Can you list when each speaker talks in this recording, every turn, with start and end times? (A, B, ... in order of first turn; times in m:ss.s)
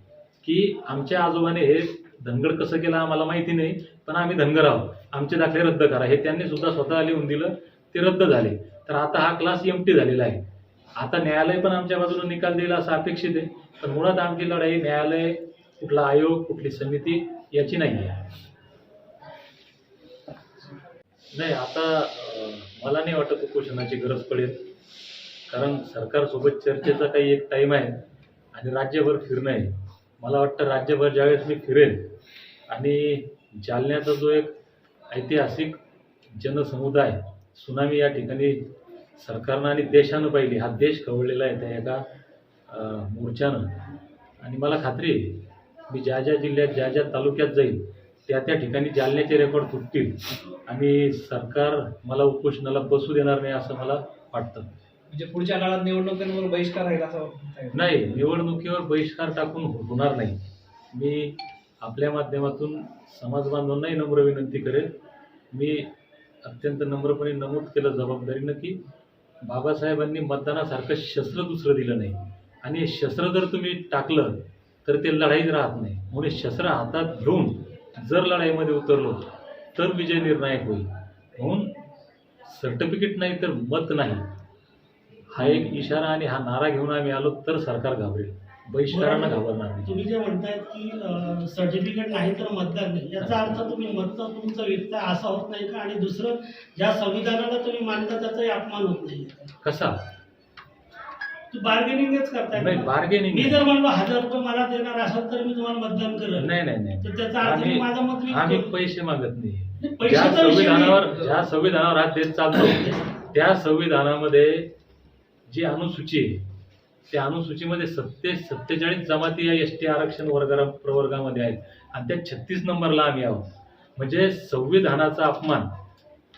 0:00.4-0:10.4 A
0:11.0-0:18.2 A
0:21.3-0:24.6 A
0:25.5-0:28.0 A
0:28.5-0:32.0 A
0:32.7-0:34.5 A
0:35.1-0:35.8 A
0:36.3-0:38.6 A
0:39.2-0:42.0 A
0:42.7-0:43.6 A
0:44.4-0:54.7 A
0:55.1-0:57.9 B
0:57.7-1:00.4 A
1:00.9-1:04.9 A
1:05.5-1:05.9 A
1:06.4-1:08.8 A
1:09.4-1:19.2 A
1:19.7-1:21.7 A
1:22.5-1:24.2 A
1:25.3-1:29.9 A
1:28.9-1:39.5 C
1:33.2-1:33.6 A
1:39.6-1:40.0 A
1:41.5-1:48.7 C
1:42.5-1:43.6 A
1:46.4-1:54.7 A
1:49.8-1:51.1 C
1:52.7-1:53.0 C
1:55.5-1:56.4 A
1:57.1-2:05.7 A